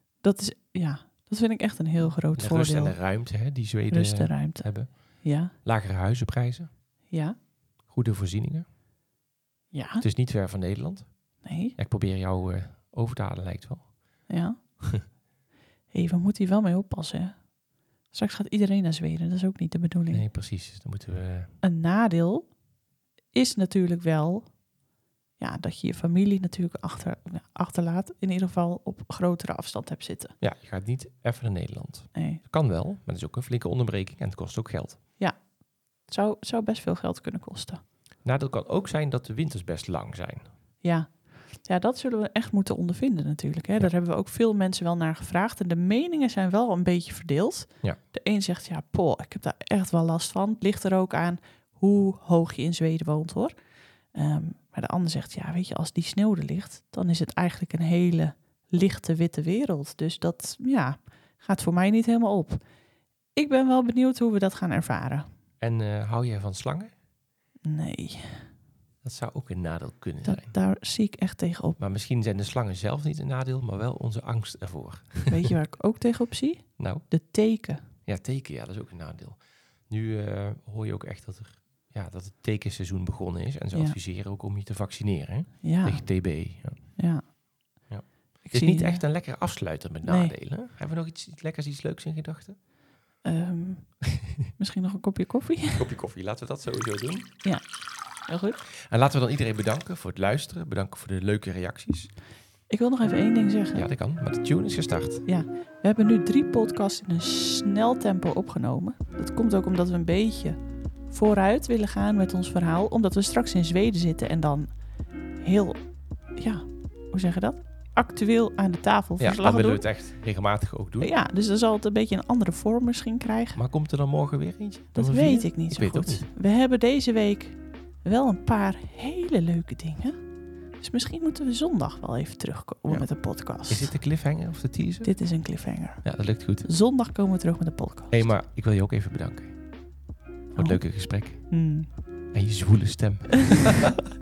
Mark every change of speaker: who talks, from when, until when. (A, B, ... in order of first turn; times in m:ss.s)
0:00.2-0:03.0 A
0:02.3-0:06.7 B
0:03.9-0:05.5 A
0:07.1-0:07.4 A
0:07.8-0:08.6 B
0:09.7-0:10.0 A
0:10.0-0:13.9 B
0:11.4-0:11.8 A
0:14.3-0:15.1 A
0:15.9-0:17.5 A
0:18.1-0:20.2 A
0:20.1-0:21.5 B
0:21.6-0:22.5 A
0:23.3-0:24.6 A
0:25.4-0:30.3 A
0:30.4-0:35.0 B
0:32.1-0:32.4 A
0:35.2-0:37.8 A
0:38.2-0:40.5 B
0:40.8-0:53.5 A
0:54.1-1:02.6 A
1:03.3-1:05.3 A
1:05.6-1:06.9 B
1:07.6-1:08.5 A
1:09.0-1:10.5 B
1:10.2-1:11.8 A
1:11.8-1:15.4 B
1:15.3-1:17.9 A
1:16.8-1:17.1 B
1:18.0-1:27.0 B
1:25.6-1:27.2 A
1:27.9-1:32.6 B
1:28.4-1:29.0 A
1:30.0-1:30.3 A
1:33.2-1:35.9 A
1:35.8-1:37.4 B
1:37.4-1:38.6 A
1:38.8-1:42.1 B
1:42.7-1:43.8 A
1:43.7-1:45.2 B
1:45.2-1:50.6 A
1:51.1-1:54.7 A
1:55.4-1:55.8 A
1:56.4-1:59.8 A
1:59.2-2:01.1 B
2:01.0-2:03.6 A
2:03.5-2:06.2 B
2:04.9-2:10.2 A
2:10.8-2:13.9 A
2:12.9-2:15.1 B
2:15.0-2:18.3 A
2:16.0-2:16.7 B
2:18.1-2:19.5 B
2:20.5-2:21.9 A
2:20.6-2:21.5 B
2:22.3-2:23.9 B
2:23.4-2:23.8 A